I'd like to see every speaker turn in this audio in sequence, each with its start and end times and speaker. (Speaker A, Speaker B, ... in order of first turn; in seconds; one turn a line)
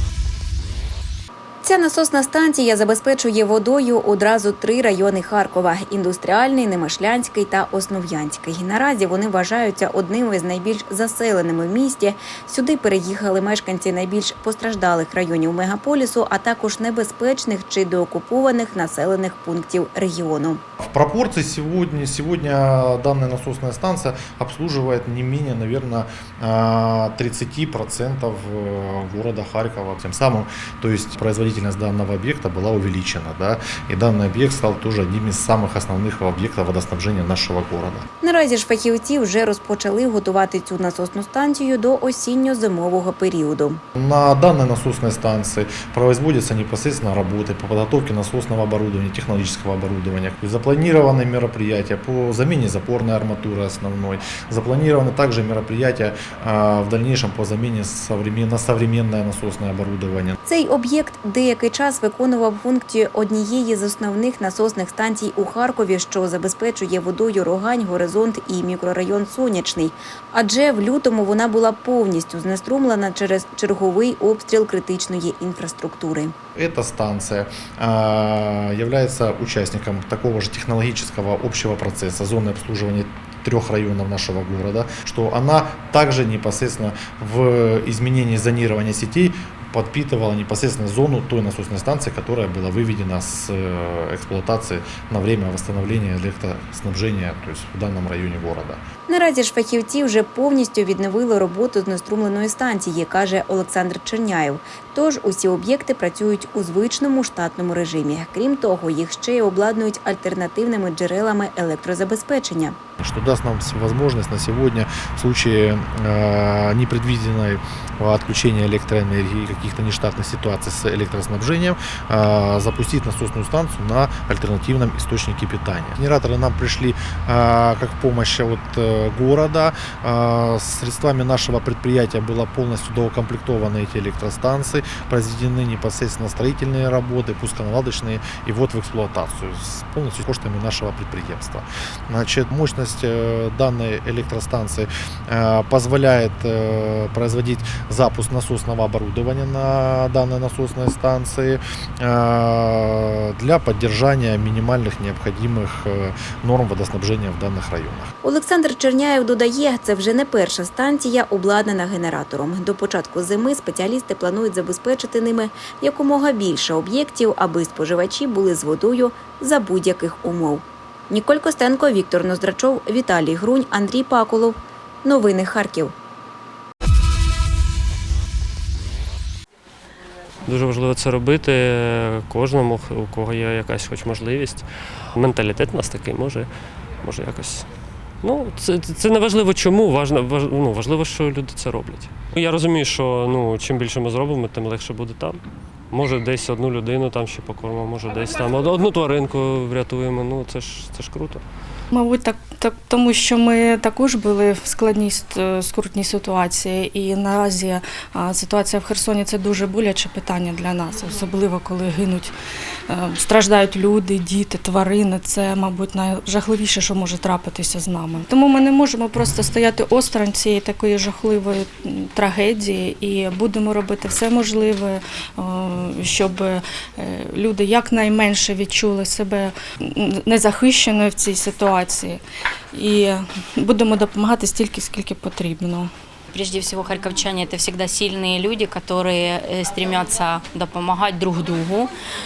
Speaker A: 1.6-20.6
Speaker B: 20.8-38.0
Speaker A: 38.2-43.8
Speaker B: 43.9-60.4
Speaker A: 60.4-76.3
Speaker B: 76.5-98.8
Speaker A: 99.1-112.8
Speaker B: 113.0-158.1
Speaker A: 158.2-175.9
Speaker C: 180.4-187.7
Speaker C: 188.2-201.4
Speaker D: 201.9-212.3
Speaker D: 212.9-232.2
Speaker D: 232.7-235.9
Speaker E: 236.3-241.9